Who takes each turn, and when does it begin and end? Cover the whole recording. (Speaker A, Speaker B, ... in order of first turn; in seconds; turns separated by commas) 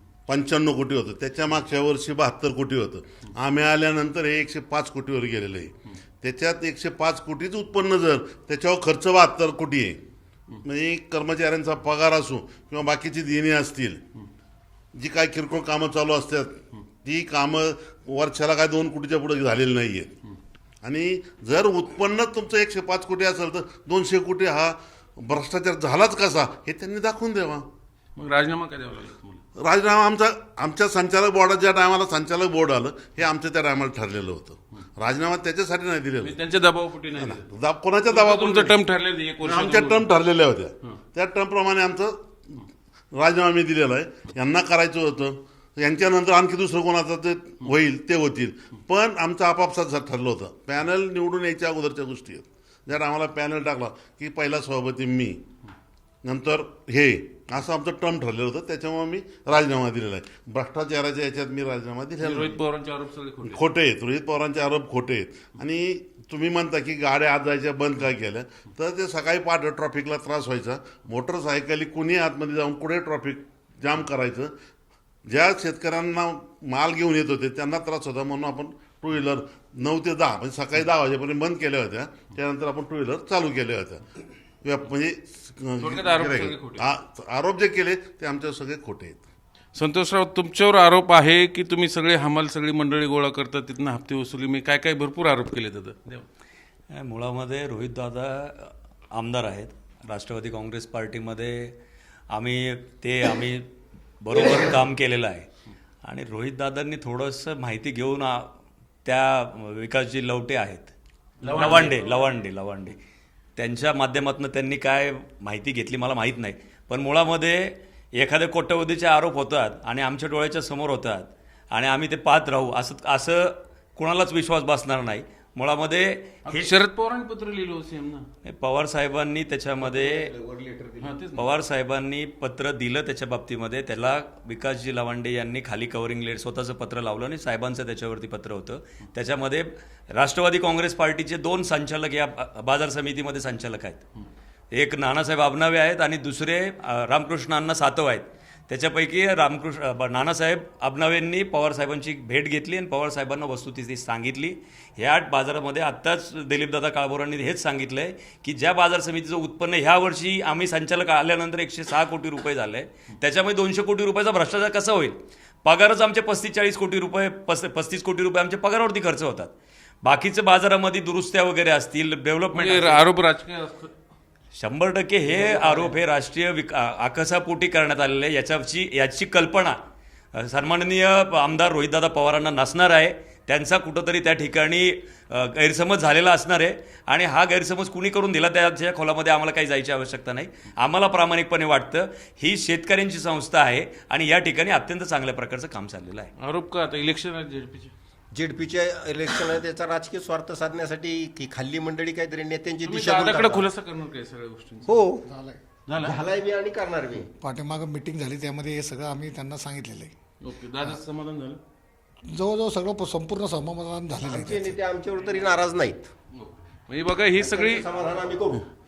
Speaker A: 0.3-10.0, Speaker A: 10.6-14.0, Speaker A: 15.0-20.1, Speaker A: 20.8-27.7, Speaker B: 28.2-29.4, Speaker A: 29.6-36.4, Speaker B: 36.2-37.4, Speaker A: 37.1-38.8, Speaker B: 38.1-40.1, Speaker A: 39.5-42.1, Speaker A: 43.1-55.4, Speaker A: 56.2-62.6, Speaker B: 62.2-63.6, Speaker A: 63.4-74.5, Speaker A: 75.3-84.0, Speaker A: 84.6-89.2, Speaker B: 85.8-86.8, Speaker B: 89.8-96.3, Speaker C: 96.9-101.8, Speaker C: 102.3-103.7, Speaker C: 104.2-105.5, Speaker C: 106.0-108.5, Speaker C: 109.0-110.9, Speaker B: 111.4-112.1, Speaker C: 111.5-113.0, Speaker C: 113.6-126.7, Speaker B: 126.5-128.3, Speaker C: 128.4-130.3, Speaker D: 129.8-131.1, Speaker B: 131.0-131.5, Speaker C: 131.4-144.0, Speaker C: 144.7-173.1, Speaker B: 172.5-173.9, Speaker C: 174.6-179.8, Speaker B: 175.3-175.9, Speaker C: 180.3-196.3, Speaker B: 196.4-197.9, Speaker D: 198.3-203.7, Speaker B: 202.8-205.0, Speaker D: 204.9-205.3, Speaker E: 205.3-205.6, Speaker B: 205.9-206.2, Speaker D: 206.0-207.3, Speaker E: 207.3-210.1, Speaker B: 210.4-211.6, Speaker E: 212.3-214.8, Speaker D: 214.2-216.1, Speaker B: 216.4-217.9, Speaker D: 217.4-218.7